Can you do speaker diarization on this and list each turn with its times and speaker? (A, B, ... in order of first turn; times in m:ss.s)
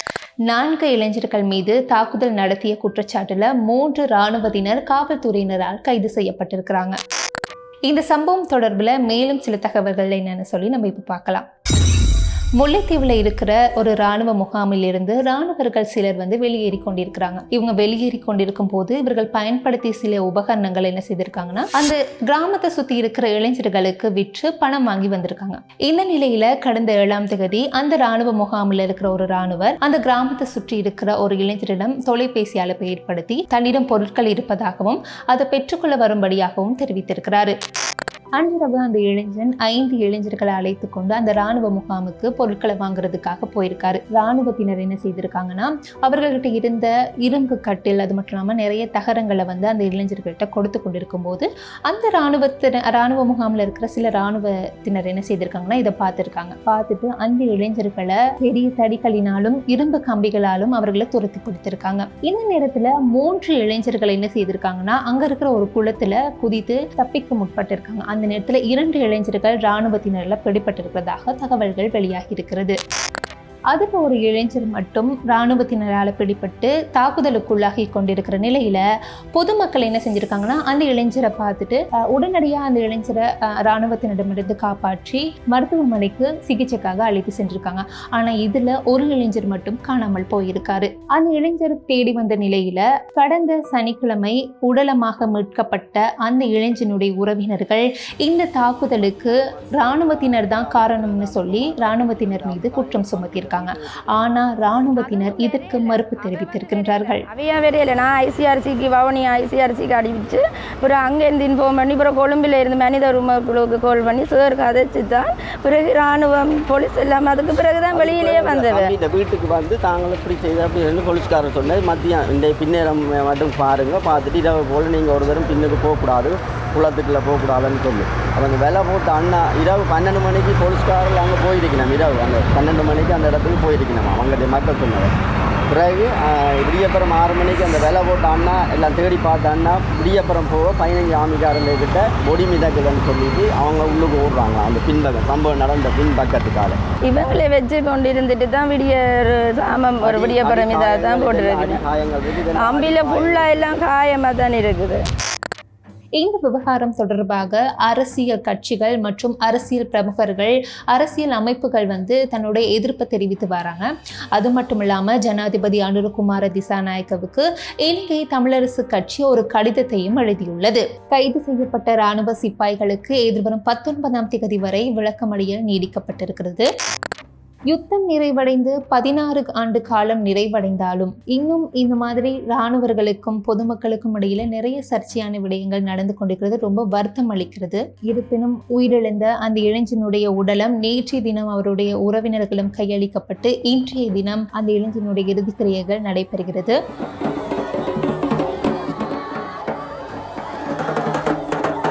0:00.5-0:07.0 A
0:07.9-0:11.4 A
0:12.6-0:37.5 A
0:38.4-1:12.8 A
1:13.7-1:18.8 A
1:19.3-1:47.2 A
1:38.9-1:44.4 B
1:45.0-1:58.9 C
1:57.9-2:15.1 B
2:15.7-2:26.8 B
2:27.0-2:31.8 C
2:30.0-2:33.8 B
2:32.5-2:35.0 C
2:36.2-2:56.7 A
2:57.7-3:16.8 A